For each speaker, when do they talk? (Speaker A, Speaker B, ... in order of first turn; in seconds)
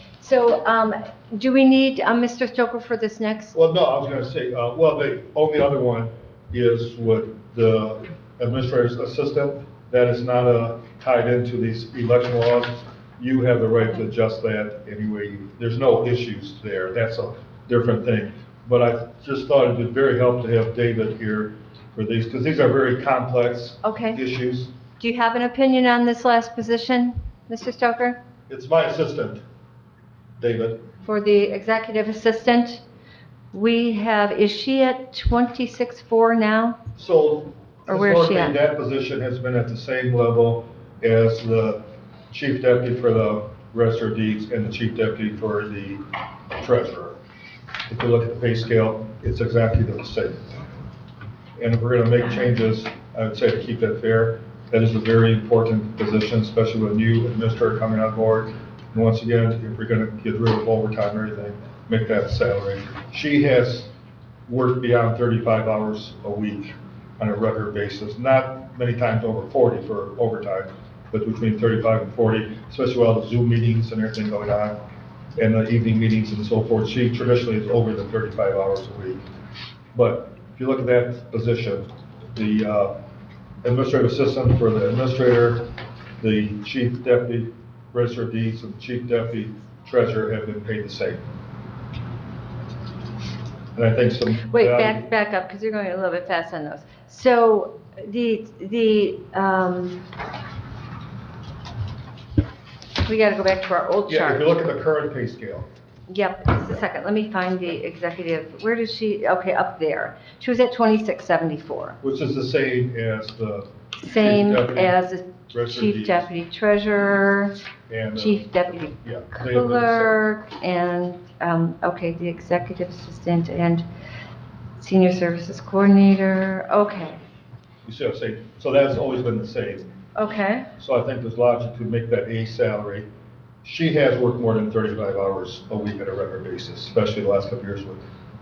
Speaker A: 0.2-3.5, 23.8-24.2, 25.0-28.2, 31.0-32.8, 33.5-36.8, 37.9-38.6, 94.5-100.0, 103.0-104.5, 106.1-112.0, 114.0-117.5, 118.1-123.8, 124.8-127.2, 130.1-130.7
Speaker B: 3.5-24.7, 28.5-29.4, 30.4-30.9, 37.0-47.2, 47.9-50.5, 51.6-63.9, 64.5-74.8, 75.3-79.2, 79.9-82.9, 83.6-85.7, 86.2-91.2, 93.7-95.1, 104.1-105.7, 112.0-115.0, 115.5-116.3, 117.9-120.2, 127.8-129.9, 130.8-133.1, 133.6-138.0